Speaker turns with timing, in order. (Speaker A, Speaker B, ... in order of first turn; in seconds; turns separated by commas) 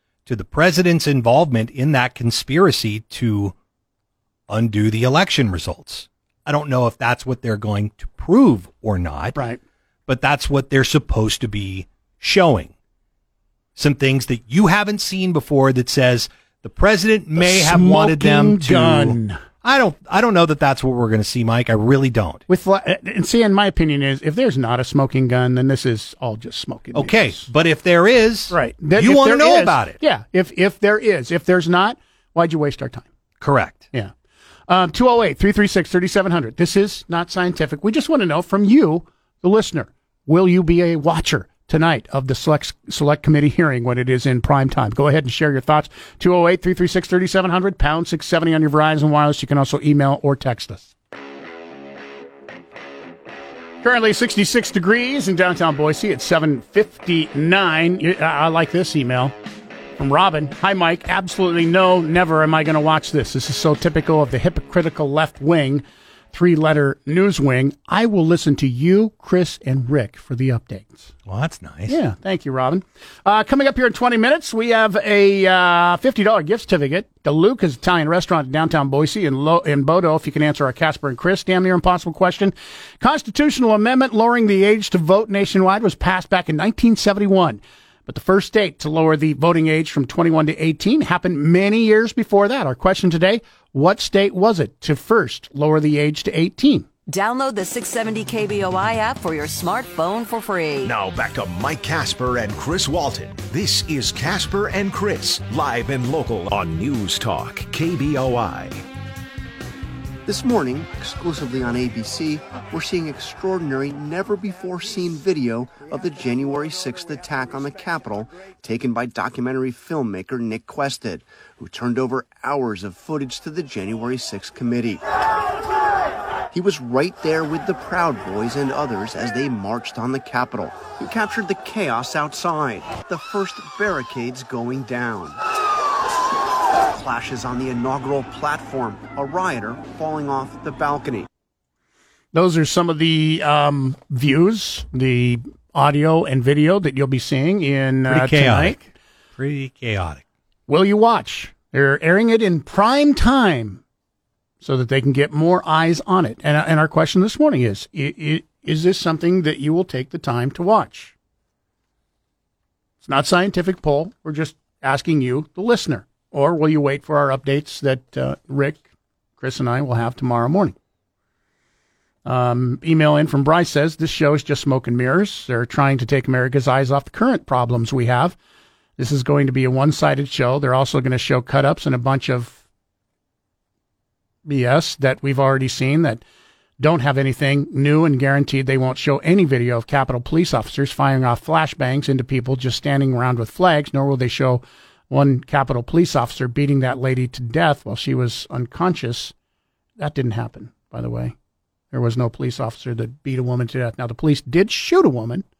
Speaker A: 0.2-3.5, Speaker A: 4.5-9.4, Speaker B: 9.3-9.6, Speaker A: 10.1-12.7, Speaker A: 13.8-22.4, Speaker B: 17.4-19.4, Speaker B: 22.5-27.5, Speaker A: 26.9-30.0, Speaker B: 28.5-33.1, Speaker A: 33.4-33.9, Speaker B: 34.7-50.9, Speaker B: 53.8-59.3, Speaker B: 60.0-71.1, Speaker A: 71.2-72.0, Speaker B: 71.9-96.8, Speaker C: 97.1-100.9, Speaker D: 100.8-108.8, Speaker E: 110.2-125.0, Speaker E: 126.5-135.4, Speaker E: 136.9-141.3, Speaker B: 142.3-148.9, Speaker A: 148.1-148.8, Speaker A: 149.3-150.2, Speaker B: 150.7-153.8, Speaker B: 154.6-161.1, Speaker B: 163.0-170.7, Speaker B: 172.2-178.4, Speaker B: 179.0-182.6, Speaker B: 184.4-186.2, Speaker B: 186.8-199.3, Speaker B: 200.0-201.3, Speaker B: 201.9-205.4